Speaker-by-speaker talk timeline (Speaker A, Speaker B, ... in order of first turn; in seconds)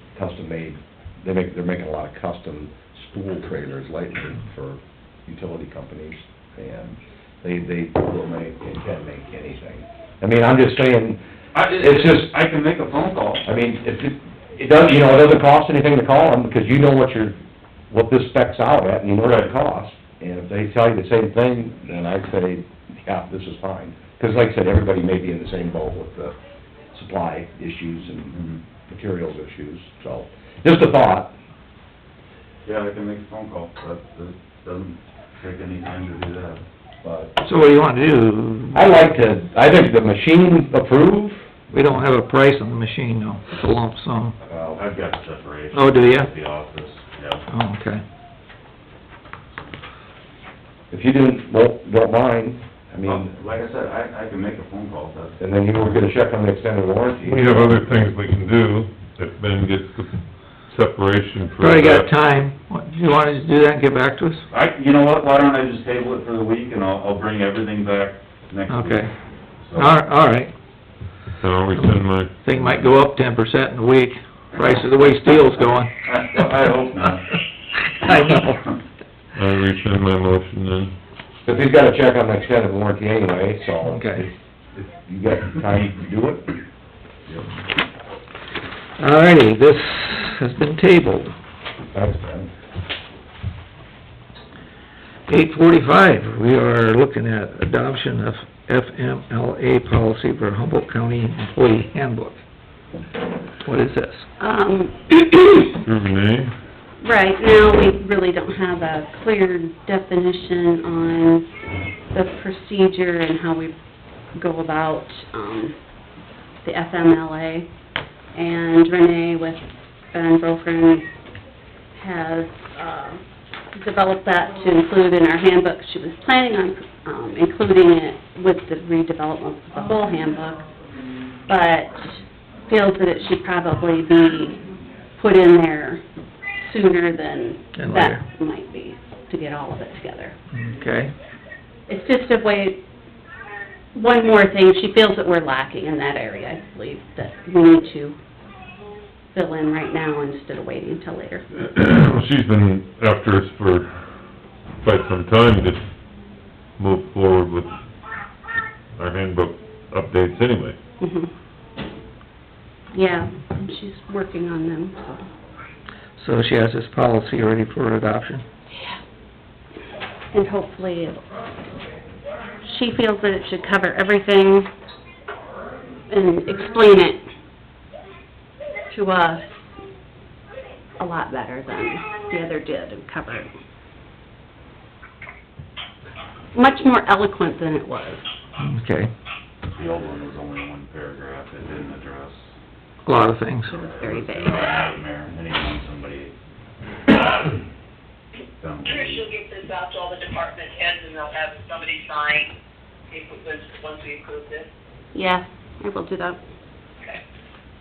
Speaker A: 0.1-11.2, 11.7-12.3, 13.4-17.4, 17.9-26.3, 26.9-31.3, 37.0-37.3, 38.7-41.4, 50.9-53.3, 55.4-57.9, 81.4-86.6, 91.9-92.5
Speaker B: 11.5-13.4, 19.2-19.5, 28.3-28.6, 32.6-36.6, 44.4-47.4, 53.0-55.3, 64.5-70.0, 76.0-77.4, 189.7-192.5, 193.7-196.3, 198.6-199.3
Speaker C: 37.4-38.9, 41.7-44.3, 45.7-46.3, 47.5-48.0, 61.6-64.4, 68.7-69.1, 69.7-70.5, 71.7-75.9, 78.0-78.7, 83.8-84.2, 89.0-91.3, 95.3-102.4, 103.6-104.3, 137.8-138.2, 140.5-141.1, 166.2-168.4, 188.6-189.1, 193.0-193.7
Speaker D: 57.2-62.1, 71.4-72.3, 79.3-80.9, 105.8-106.5, 151.6-153.9, 154.8-155.8, 156.8-157.8, 159.0-160.8
Speaker E: 104.4-105.8, 107.0-111.5, 112.1-113.7, 114.3-115.7, 116.6-117.7, 118.3-121.1, 121.9-123.2, 123.7-130.6, 131.5-132.2, 132.7-134.6, 135.2-136.0, 136.6-140.3, 141.9-142.8, 143.9-148.2, 149.3-151.4, 161.0-161.3, 162.9-165.3, 168.7-169.0, 170.3-171.2, 172.6-174.7, 176.1-177.2, 178.9-179.4, 181.0-183.5, 186.5-188.3, 193.7-194.7, 205.1-206.4
Speaker F: 198.9-202.5, 203.1-204.7